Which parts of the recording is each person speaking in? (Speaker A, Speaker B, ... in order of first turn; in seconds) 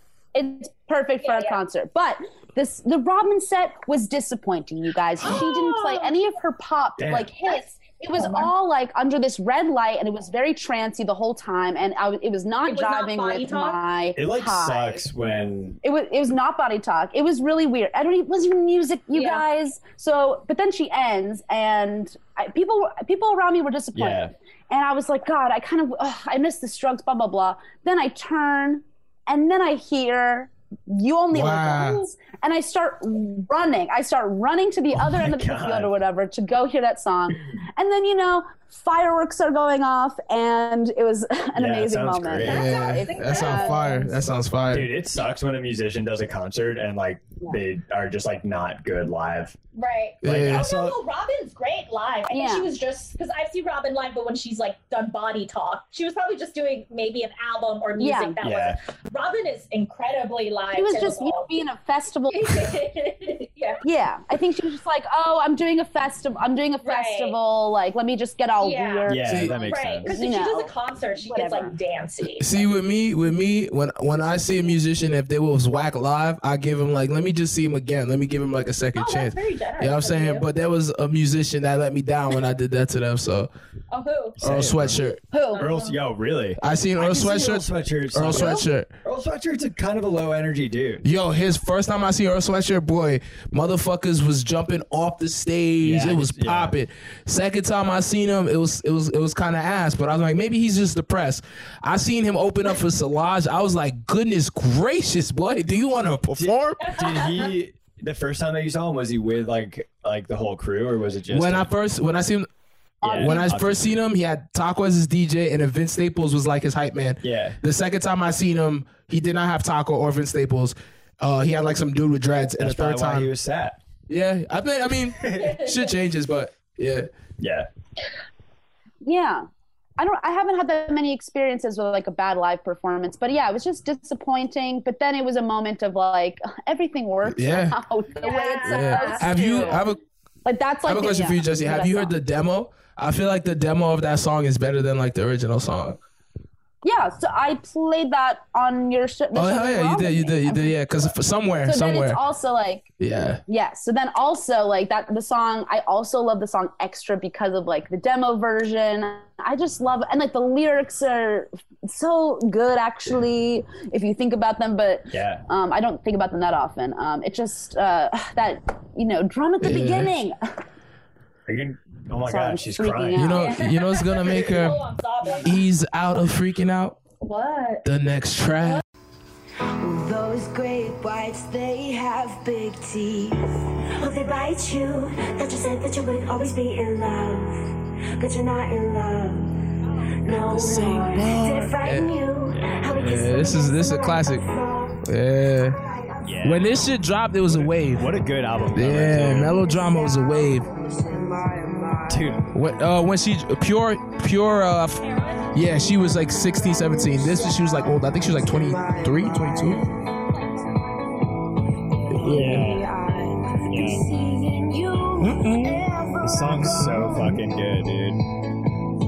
Speaker A: 0.3-15.1, 15.8-44.1, 52.3-52.7, 58.0-58.4, 60.7-62.8, 63.8-71.8, 85.3-85.7, 113.0-113.4, 129.0-129.5, 130.0-139.8, 140.4-142.1, 146.8-150.8, 151.7-152.9, 153.5-170.4, 172.3-173.6
Speaker B: 1.2-1.6, 5.2-6.2, 8.2-8.5, 12.7-13.8, 19.1-19.4, 42.5-44.1, 49.8-61.5, 62.3-63.8, 66.8-67.4, 68.6-69.1, 69.7-72.7, 79.0-80.5, 83.9-84.4, 85.5-86.0, 106.8-107.5, 125.2-126.0, 138.2-139.8, 173.3-175.7, 177.2-177.9, 189.8-190.2, 205.0-205.8, 210.3-210.6
Speaker C: 7.0-7.3, 14.2-15.8, 23.9-24.3, 34.9-35.9, 41.6-42.7, 44.7-49.6, 50.2-51.0, 58.4-58.8, 69.1-70.1, 84.4-85.0, 85.6-91.0, 95.8-96.8, 106.3-111.7, 113.0-114.0, 117.2-117.6, 122.6-123.8, 125.2-125.5, 127.4-127.7, 165.1-165.4, 171.5-173.3, 192.5-193.3, 196.2-196.8, 197.5-199.6, 202.1-202.5, 212.2-212.8, 213.7-214.1, 216.2-218.2
Speaker D: 31.3-32.0, 42.5-44.9, 50.2-50.7, 69.3-69.7, 72.4-83.5, 84.4-85.2, 86.6-88.9, 91.0-106.9, 111.3-112.5, 113.1-123.3, 124.1-127.1, 137.2-137.8, 138.7-140.0, 140.9-146.0, 149.3-152.2, 153.0-153.4, 169.6-170.1, 173.2-174.8, 175.4-177.0, 177.8-178.8, 190.5-192.1, 193.0-194.4, 195.0-195.8, 196.4-198.1, 198.7-200.7, 202.5-209.8, 212.1-212.7, 215.2-215.9
Speaker E: 179.8-183.4, 183.9-189.6, 190.2-196.8, 199.4-202.4, 206.2-211.5, 212.0-217.5